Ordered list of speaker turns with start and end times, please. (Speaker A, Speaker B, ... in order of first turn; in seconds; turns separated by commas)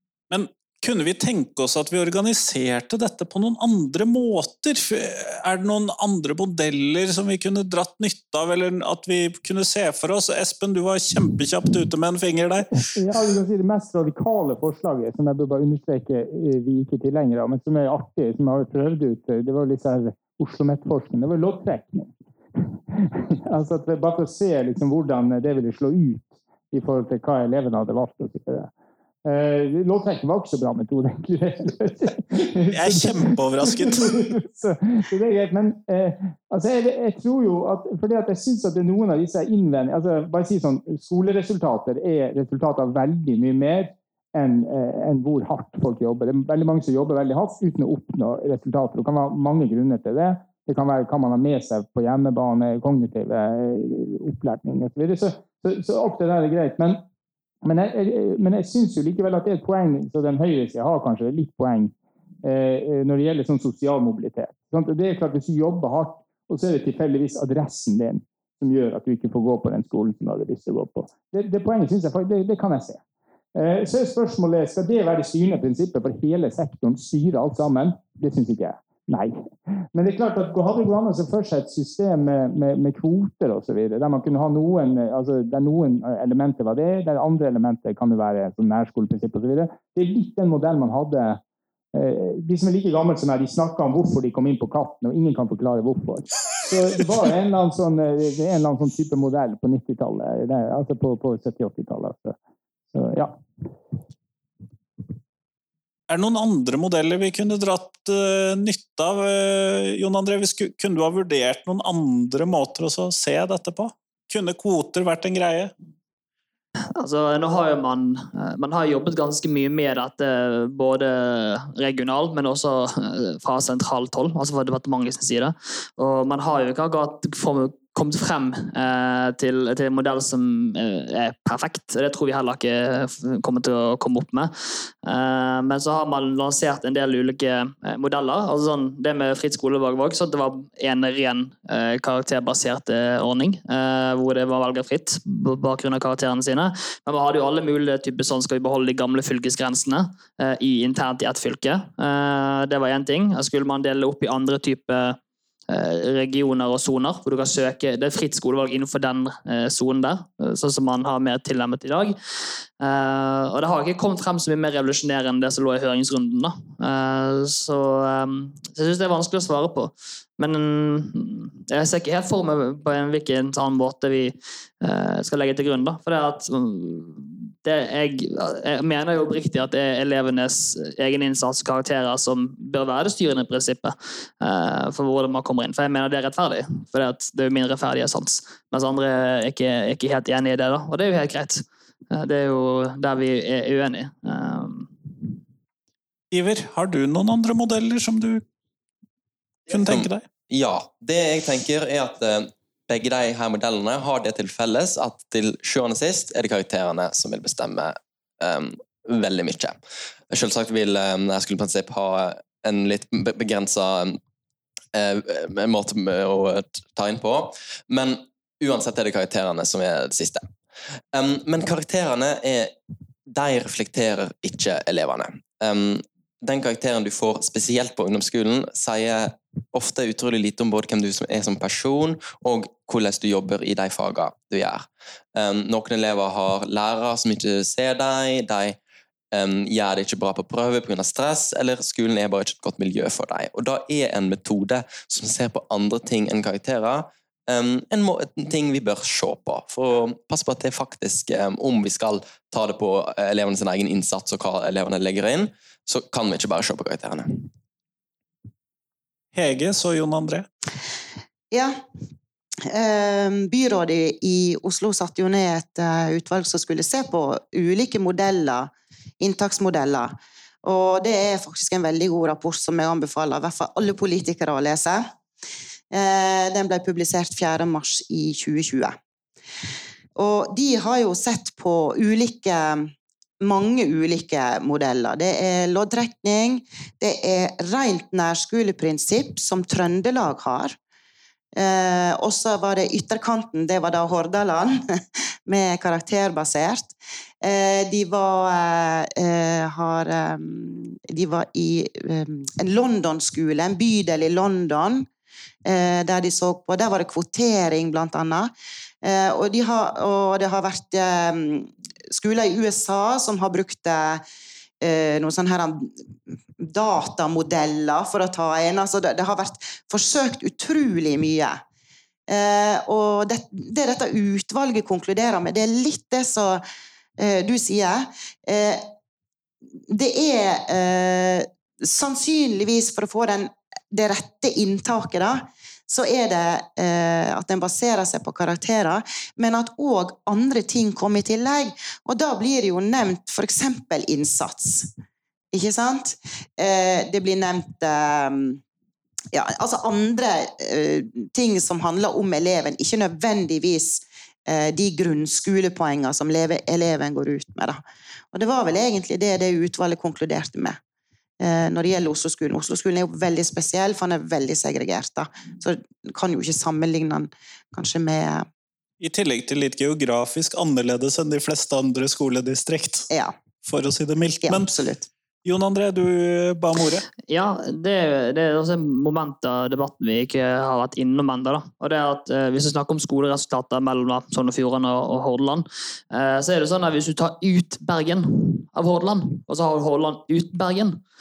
Speaker A: 0.3-12.9, Speaker B: 12.9-28.7, Speaker B: 29.2-57.0, Speaker A: 32.7-34.1, Speaker B: 57.6-61.9, Speaker B: 62.4-73.0, Speaker B: 73.5-91.4, Speaker B: 91.9-102.3, Speaker B: 102.9-103.4, Speaker A: 106.1-115.7, Speaker C: 116.9-155.2, Speaker C: 155.7-162.2, Speaker C: 162.8-194.9, Speaker A: 196.3-198.4, Speaker A: 199.7-200.2, Speaker D: 199.7-209.7, Speaker D: 210.3-214.2, Speaker D: 214.9-220.5, Speaker D: 221.1-222.7, Speaker D: 223.3-238.8, Speaker D: 239.3-257.5, Speaker A: 259.3-260.4, Speaker E: 261.5-261.8, Speaker E: 262.7-275.0, Speaker E: 275.9-279.0, Speaker E: 280.1-282.9, Speaker E: 283.4-290.8, Speaker E: 291.6-305.1, Speaker E: 305.6-308.5, Speaker E: 309.0-314.2, Speaker E: 314.8-315.9, Speaker E: 316.6-321.6, Speaker E: 322.3-326.6, Speaker E: 327.2-328.8, Speaker E: 329.9-344.9, Speaker E: 345.5-348.6, Speaker E: 349.3-357.8, Speaker E: 358.3-360.8, Speaker E: 361.4-368.5, Speaker A: 369.0-373.1, Speaker E: 373.1-373.3, Speaker A: 373.6-374.7, Speaker E: 374.4-375.1, Speaker A: 375.4-377.0, Speaker C: 377.3-391.0